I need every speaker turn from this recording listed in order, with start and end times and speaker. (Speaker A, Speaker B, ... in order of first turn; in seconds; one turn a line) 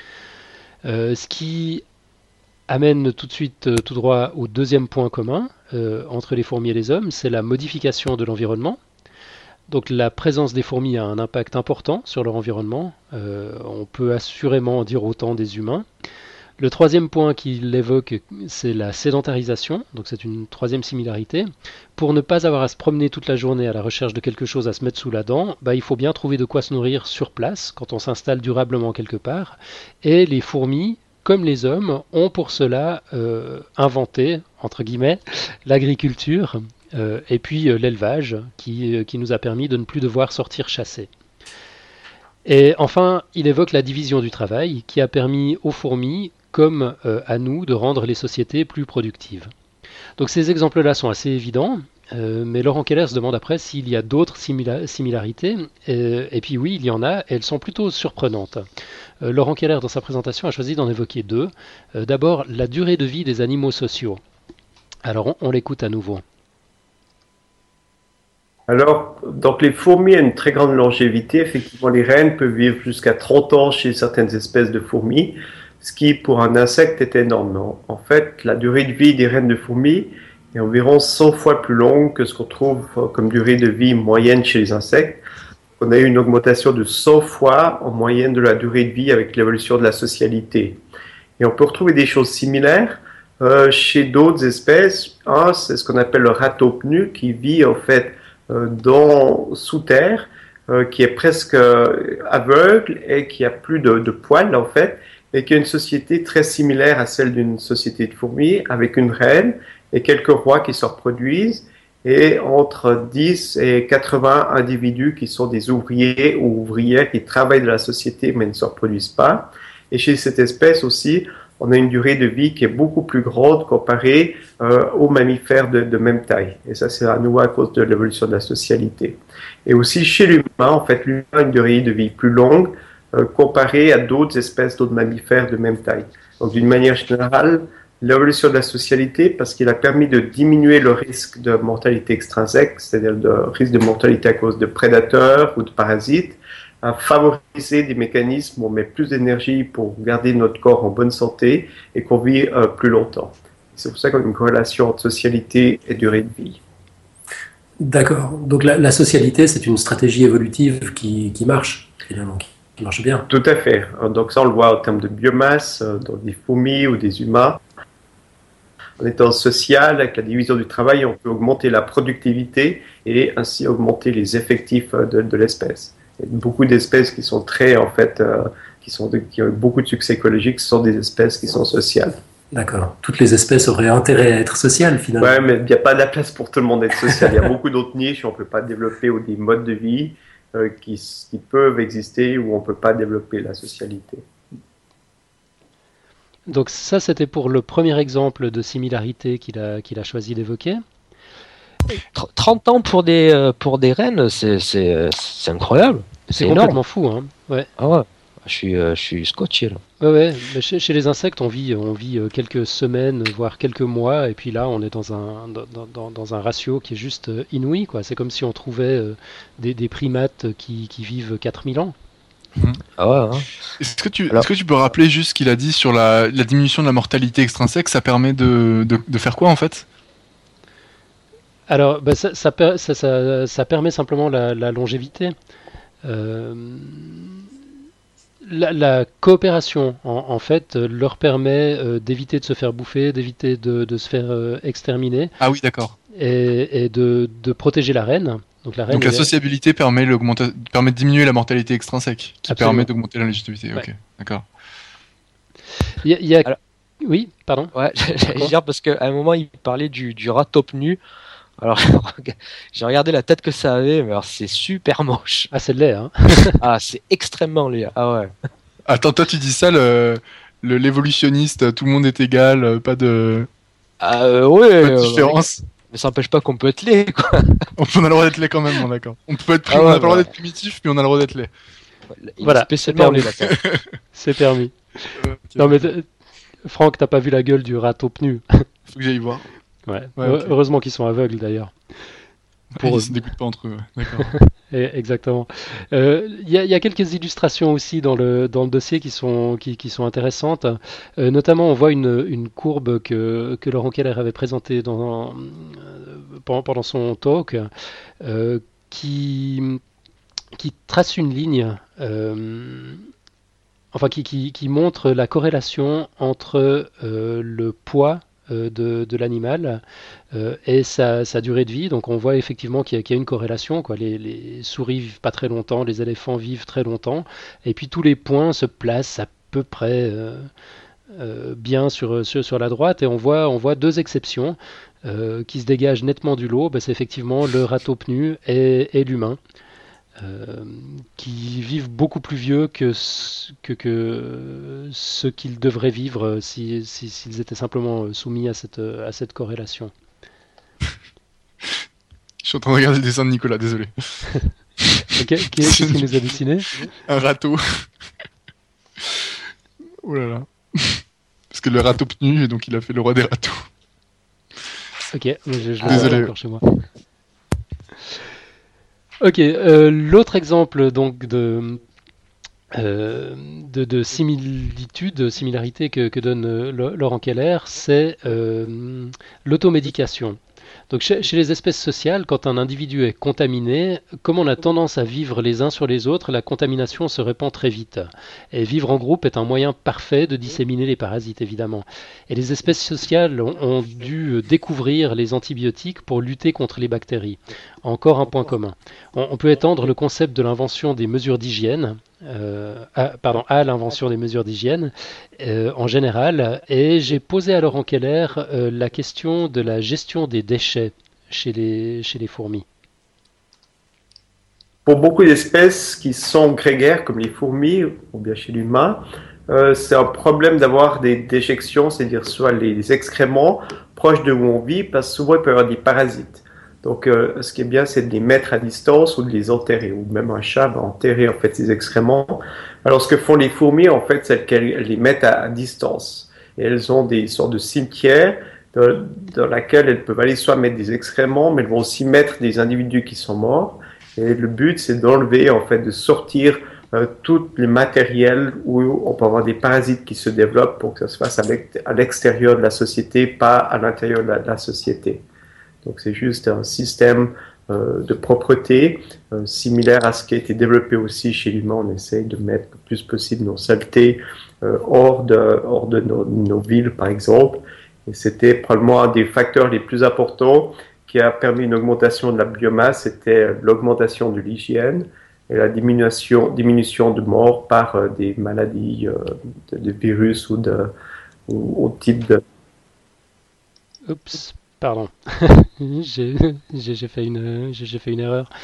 Speaker A: 0.8-1.8
Speaker A: 2.7-8.8
Speaker A: 9.7-15.8
Speaker A: 16.6-41.1
Speaker A: 42.5-49.5
Speaker A: 50.2-58.6
Speaker A: 59.2-64.2
Speaker A: 65.0-66.2
Speaker B: 68.7-85.2
Speaker B: 85.8-90.8
Speaker B: 91.4-156.6
Speaker C: 157.8-163.3
Speaker B: 163.3-167.6
Speaker B: 169.0-182.2
Speaker C: 182.5-185.3
Speaker B: 185.2-194.2
Speaker A: 196.5-200.8
Speaker D: 202.1-206.8
Speaker A: 206.3-207.7
Speaker D: 207.8-209.8
Speaker A: 210.0-221.9
Speaker D: 223.0-223.5
Speaker E: 223.8-229.8
Speaker A: 231.7-235.3
Speaker A: 236.0-237.4
Speaker A: 238.4-245.3
Speaker E: 245.4-245.9
Speaker A: 246.1-249.3
Speaker E: 248.9-254.4
Speaker A: 252.5-252.9
Speaker A: 256.0-256.5
Speaker A: 257.0-257.7
Speaker D: 257.7-261.0
Speaker D: 261.6-265.5
Speaker A: 265.5-266.6
Speaker D: 266.6-268.3
Speaker E: 268.9-273.5
Speaker D: 274.0-277.6
Speaker E: 274.8-275.6
Speaker E: 277.8-281.5
Speaker D: 279.7-280.3
Speaker D: 282.1-283.6
Speaker A: 282.4-283.3
Speaker E: 283.5-283.8
Speaker A: 284.1-286.1
Speaker E: 285.2-285.9
Speaker A: 286.6-288.6
Speaker E: 288.9-289.5
Speaker A: 289.9-291.7
Speaker E: 290.2-290.5
Speaker E: 292.7-294.3
Speaker A: 292.8-293.2
Speaker A: 294.2-307.7
Speaker A: 308.2-309.8
Speaker A: 310.6-313.0
Speaker A: 313.9-319.8
Speaker A: 320.3-330.5
Speaker A: 331.1-339.4
Speaker A: 340.2-349.9
Speaker E: 352.4-355.1
Speaker A: 355.1-356.9
Speaker E: 355.6-356.2
Speaker E: 356.8-357.9
Speaker E: 360.0-363.7
Speaker A: 365.1-366.6
Speaker E: 365.9-366.3
Speaker A: 369.2-371.8
Speaker A: 372.7-380.4
Speaker A: 380.9-412.6
Speaker B: 414.9-455.2
Speaker B: 455.8-480.9
Speaker B: 481.5-482.4
Speaker A: 484.1-488.5